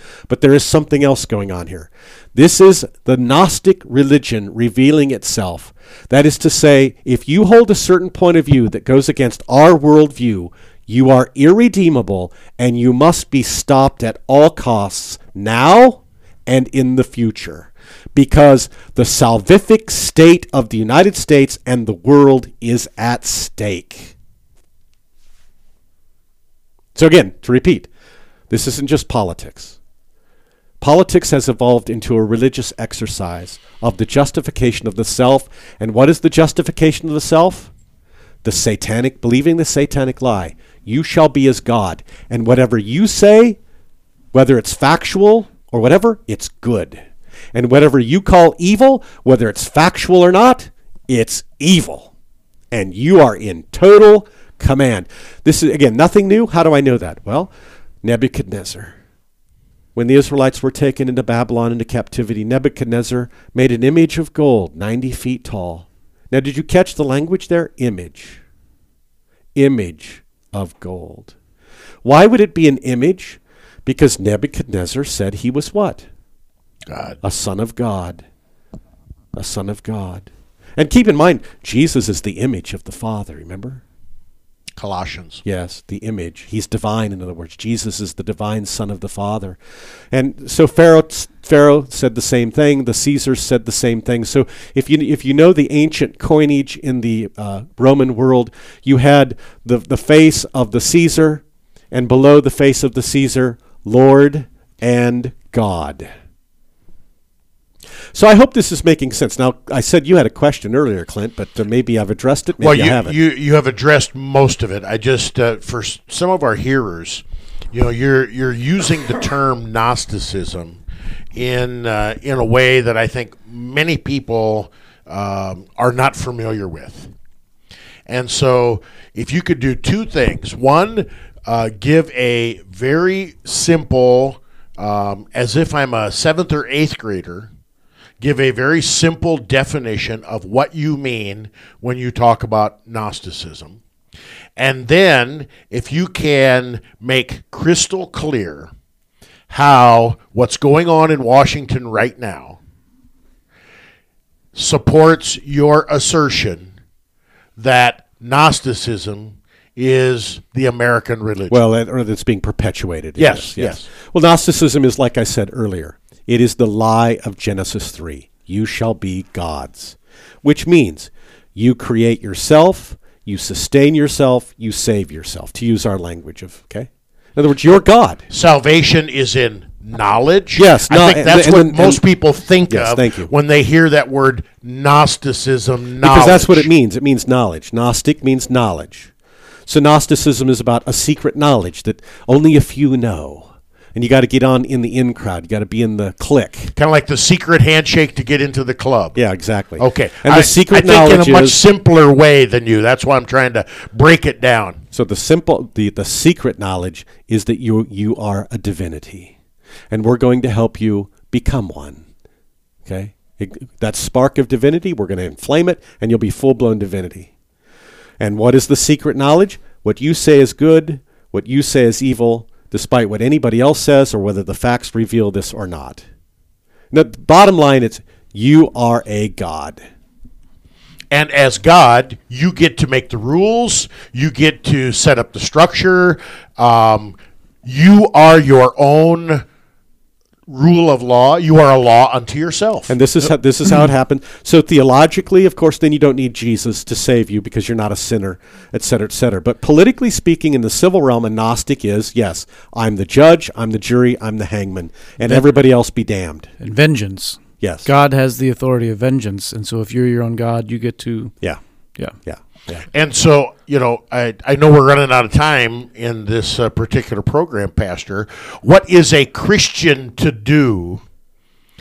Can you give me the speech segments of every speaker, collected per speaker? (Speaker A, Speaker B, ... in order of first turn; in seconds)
Speaker A: 0.3-24.1, 26.9-27.9, 28.5-29.8, 30.8-37.7, 38.4-43.6, 44.3-47.0, 47.5-52.1, 52.7-57.5, 58.0-59.0, 59.9-68.4, 69.5-71.3, 72.0-76.0, 77.2-78.2, 79.3-83.8, 85.4-89.6, 90.1-106.1, 108.1-113.2, 161.5-178.2, 180.6-182.0, 182.7-183.3, 186.0-189.1, 189.7-196.7, 199.1-201.6, 204.9-209.3, 209.9-212.0, 212.8-217.3, 218.2-226.0, 226.9-229.8, 242.9-256.5, 257.6-257.9, 262.2-262.8
Speaker B: 76.9-77.2, 84.8-85.4, 112.6-120.8, 121.3-127.1, 128.1-137.5, 138.2-143.8, 144.6-148.7, 149.5-152.6, 154.5-156.7, 157.6-161.6, 163.2-163.9, 178.3-186.7, 196.8-199.2, 199.8-204.8, 231.1-239.4, 240.5-242.9, 262.9-271.0
Speaker C: 256.6-261.3